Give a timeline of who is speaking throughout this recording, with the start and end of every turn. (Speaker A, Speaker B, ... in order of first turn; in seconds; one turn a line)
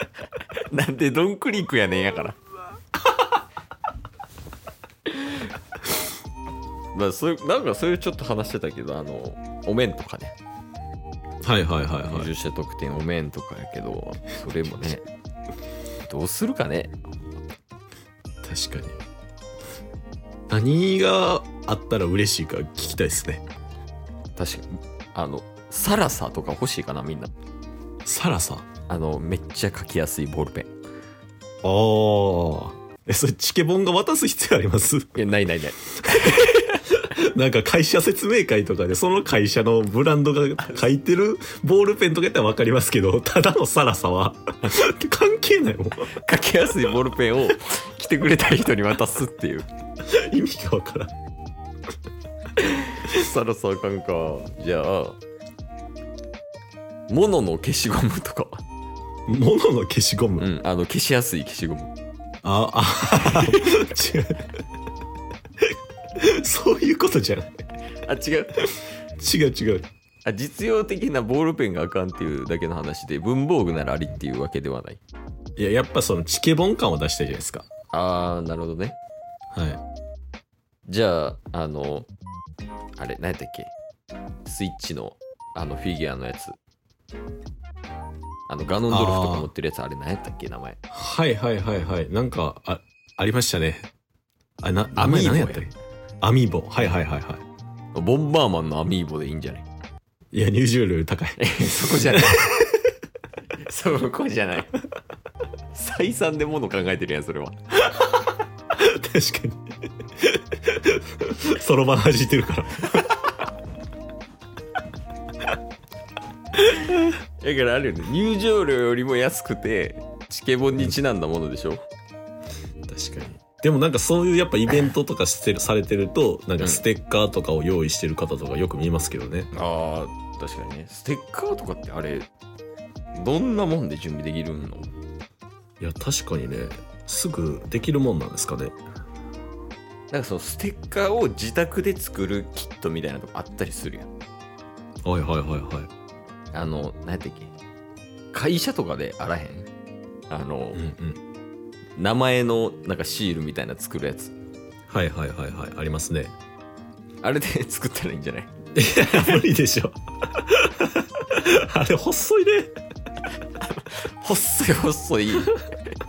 Speaker A: 0.5-2.4
Speaker A: 6.9-10.3
Speaker B: 11.4-12.3
Speaker A: 12.0-15.0
Speaker A: 16.0-17.0
Speaker B: 18.4-19.0
Speaker B: 20.5-23.4
Speaker A: 24.4-27.3
Speaker B: 28.0-28.7
Speaker A: 28.9-30.7
Speaker B: 31.6-35.2
Speaker A: 35.1-36.8
Speaker B: 36.0-46.1
Speaker A: 46.1-49.7
Speaker B: 50.0-51.1
Speaker A: 52.6-55.2
Speaker A: 57.1-58.6
Speaker B: 59.3-60.5
Speaker A: 60.4-61.9
Speaker B: 62.4-64.6
Speaker A: 63.2-63.9
Speaker B: 66.2-67.6
Speaker A: 68.0-68.8
Speaker B: 69.2-69.8
Speaker A: 70.2-75.0
Speaker B: 75.6-77.7
Speaker A: 77.9-79.0
Speaker B: 79.5-79.8
Speaker A: 80.9-82.1
Speaker A: 83.0-83.7
Speaker A: 84.4-86.5
Speaker A: 88.5-90.8
Speaker B: 88.9-89.5
Speaker B: 90.9-93.9
Speaker B: 94.6-97.4
Speaker A: 95.0-95.7
Speaker A: 97.9-99.7
Speaker B: 100.3-102.7
Speaker A: 101.4-102.6
Speaker A: 103.7-104.8
Speaker A: 105.7-107.6
Speaker B: 108.7-113.1
Speaker A: 116.6-121.8
Speaker B: 122.9-129.5
Speaker A: 129.5-132.3
Speaker A: 133.1-134.9
Speaker B: 135.8-138.8
Speaker A: 140.1-144.1
Speaker B: 145.0-145.9
Speaker A: 146.5-147.5
Speaker A: 148.3-149.7
Speaker A: 150.3-150.8
Speaker B: 150.7-151.2
Speaker A: 152.0-154.3
Speaker B: 154.9-156.3
Speaker A: 157.2-158.5
Speaker B: 158.7-162.7
Speaker A: 159.1-159.4
Speaker A: 163.6-165.6